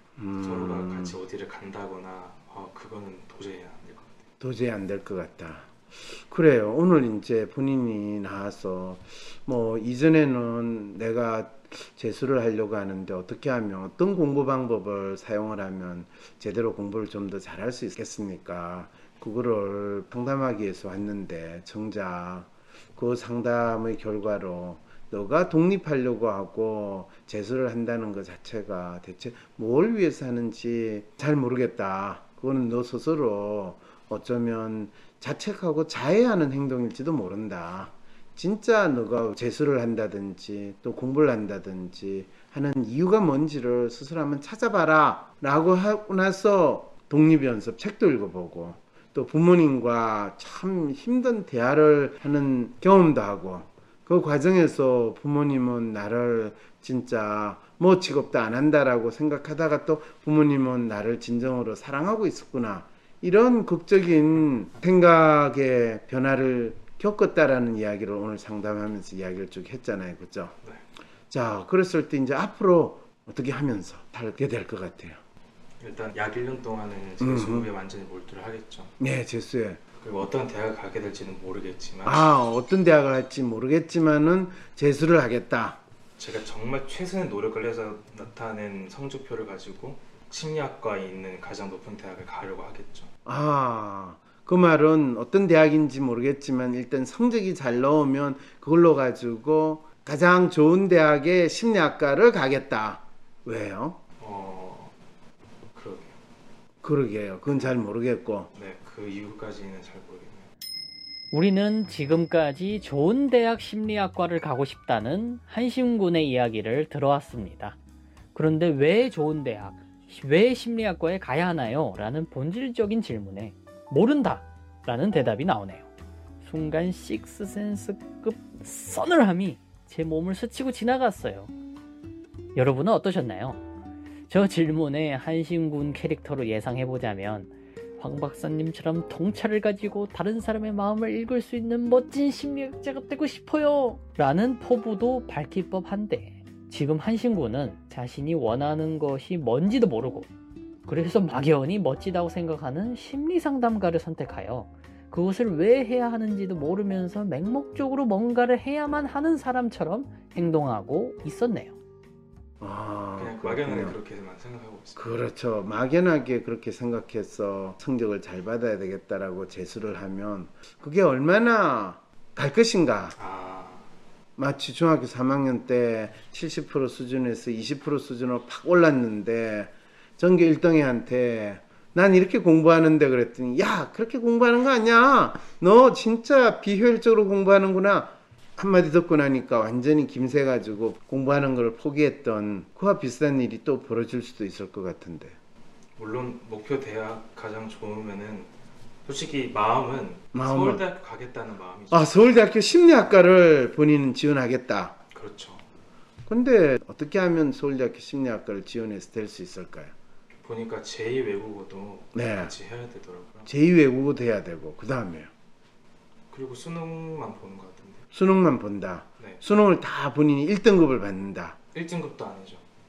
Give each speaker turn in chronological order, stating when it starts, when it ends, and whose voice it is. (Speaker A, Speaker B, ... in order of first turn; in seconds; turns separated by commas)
Speaker A: 0.2-1.2, Speaker B: 0.4-4.2, Speaker A: 4.4-70.5, Speaker A: 71.3-75.2, Speaker B: 75.8-78.9, Speaker A: 77.2-77.7, Speaker A: 79.0-79.8, Speaker B: 80.0-82.3, Speaker A: 82.0-85.8, Speaker B: 86.2-93.1, Speaker A: 93.3-104.0, Speaker B: 104.2-104.9, Speaker B: 105.7-106.2, Speaker A: 106.8-108.5, Speaker B: 108.6-110.5, Speaker C: 111.3-117.8, Speaker C: 118.3-125.9, Speaker C: 126.4-131.5, Speaker C: 132.6-133.6, Speaker C: 134.3-150.3, Speaker C: 150.9-161.7, Speaker A: 162.6-164.0, Speaker B: 163.2-165.0, Speaker A: 164.9-173.2, Speaker B: 173.2-173.9, Speaker A: 174.4-195.4, Speaker B: 196.0-198.5, Speaker B: 199.1-202.2, Speaker A: 200.3-200.8, Speaker A: 201.9-205.0, Speaker B: 205.1-205.6, Speaker A: 206.3-209.9, Speaker B: 210.4-213.5, Speaker A: 212.1-212.6, Speaker A: 213.4-215.3, Speaker B: 216.3-218.1, Speaker A: 218.1-221.6, Speaker B: 221.7-222.6